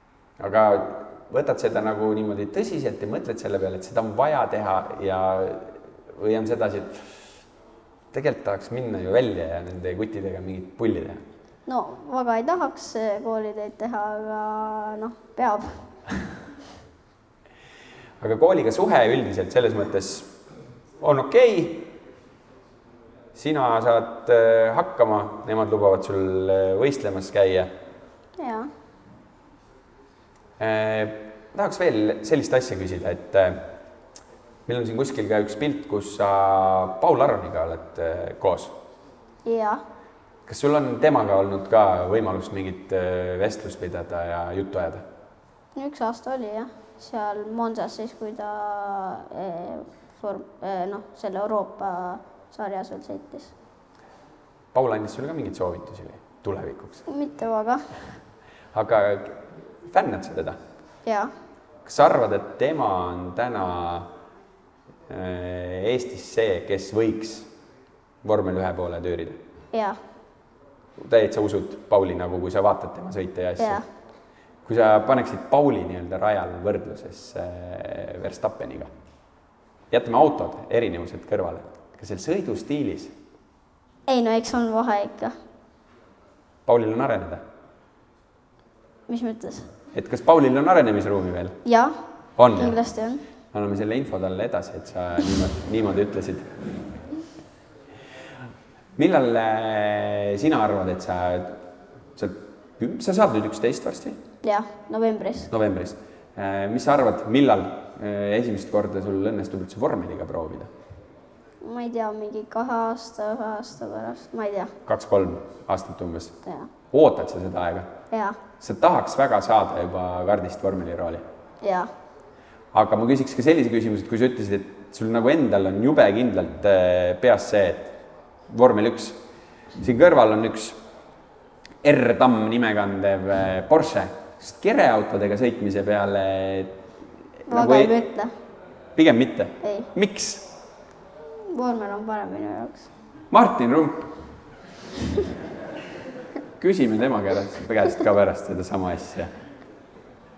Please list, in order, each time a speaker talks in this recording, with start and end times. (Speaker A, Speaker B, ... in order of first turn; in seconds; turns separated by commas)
Speaker A: 0.4-7.3, Speaker A: 8.1-11.2, Speaker B: 11.7-15.8, Speaker A: 18.2-20.3, Speaker A: 21.0-21.9, Speaker A: 23.3-27.7, Speaker B: 28.4-28.7, Speaker A: 30.6-33.7, Speaker A: 34.7-38.8, Speaker B: 39.5-39.8, Speaker A: 40.5-45.0, Speaker B: 45.8-53.5, Speaker A: 54.7-57.0, Speaker B: 57.1-57.8, Speaker A: 58.7-60.6, Speaker B: 61.0-61.3, Speaker A: 61.9-64.1, Speaker A: 65.1-67.5, Speaker A: 68.2-69.4, Speaker A: 71.0-73.8, Speaker B: 73.6-73.8, Speaker A: 74.7-78.9, Speaker A: 79.9-83.2, Speaker B: 84.1-85.3, Speaker A: 86.7-87.4, Speaker B: 89.1-89.7, Speaker A: 89.9-91.6, Speaker B: 91.7-92.0, Speaker A: 92.4-92.8, Speaker B: 92.5-93.2, Speaker A: 93.5-96.6, Speaker A: 99.0-101.6, Speaker A: 102.2-104.2, Speaker B: 104.4-105.5, Speaker A: 105.5-110.7, Speaker B: 111.6-114.7, Speaker A: 114.8-116.4, Speaker B: 116.5-116.7, Speaker A: 116.9-117.9, Speaker B: 118.1-118.4, Speaker A: 118.6-121.2, Speaker B: 121.6-121.9, Speaker A: 122.7-129.2, Speaker A: 129.8-130.8, Speaker A: 131.8-136.8, Speaker A: 137.4-138.0, Speaker B: 137.5-138.3, Speaker A: 138.9-140.5, Speaker B: 139.6-139.9, Speaker B: 141.5-142.9, Speaker A: 143.3-144.1, Speaker A: 146.6-149.3